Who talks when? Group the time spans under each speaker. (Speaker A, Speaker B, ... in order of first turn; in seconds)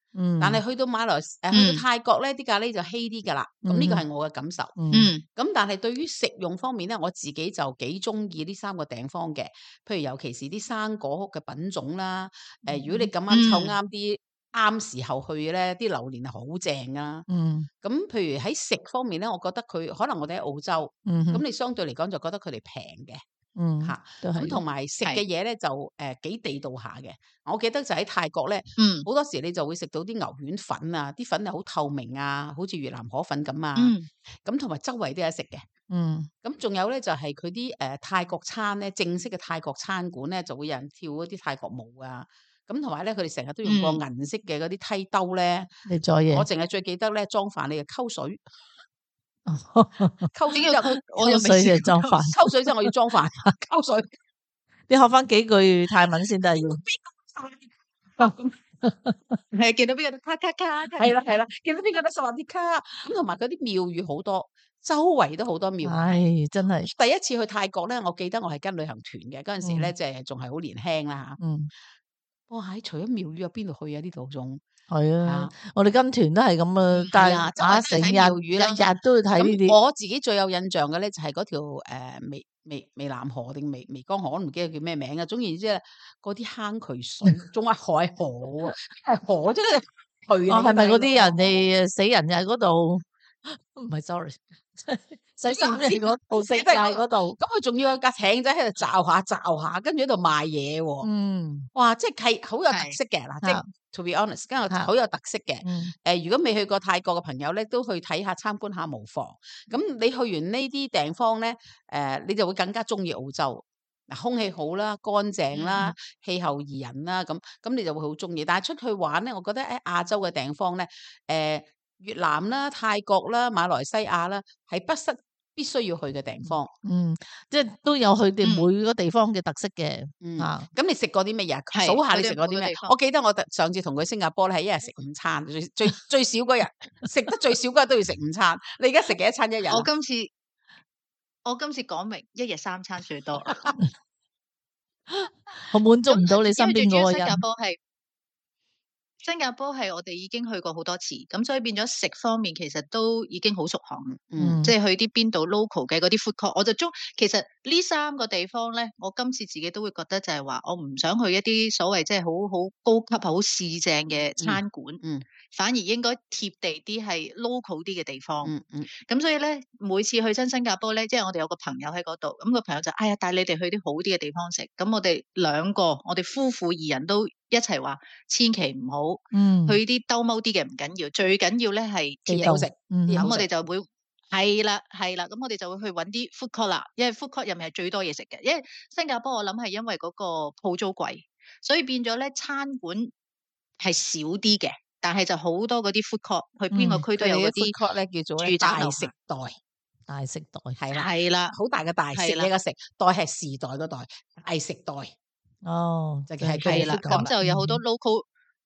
Speaker A: 0.1-0.6, 3.7-4.0, 4.8-5.1, 12.7-13.1, 17.3-17.7, 21.1-21.4, 23.6-24.6, 35.9-36.3, 45.9-46.5, 49.5-50.3, 51.2-52.9, 54.9-56.8, 58.8-59.4, 65.8-66.9, 69.6-69.9, 71.4-71.7, 74.9-79.8, 90.5-97.4, 101.0-101.7, 105.6-105.9, 126.5-130.7, 145.2-147.4, 154.4-154.7, 179.3-179.8, 182.3-183.3, 196.7-197.1, 200.1-200.8, 205.6-207.8
Speaker B: 0.4-17.3, 17.8-23.2, 23.8-33.9, 34.5-35.7, 36.4-45.7, 46.3-48.4, 50.3-50.9, 52.2-54.1, 56.5-58.5, 61.0-66.2, 66.8-71.4, 72.5-74.6, 75.2-75.5, 77.1-91.7, 95.5-101.1, 101.8-126.7, 130.2-139.9, 154.2-154.6, 164.4-165.2, 168.4-168.9, 182.3-183.5, 197.2-199.6, 200.8-205.1, 206.3-207.3
Speaker C: 1.5-1.8, 4.9-5.2, 13.3-13.8, 28.8-29.1, 33.8-34.1, 43.6-44.0, 50.5-52.2, 59.5-61.1, 102.7-103.0, 128.4-128.7, 131.7-132.9, 139.7-140.3, 141.5-143.7, 146.1-147.8, 149.2-168.5, 169.1-182.6, 183.1-193.1, 193.8-197.7, 198.4-199.1, 200.9-201.6, 202.1-202.5, 206.6-208.2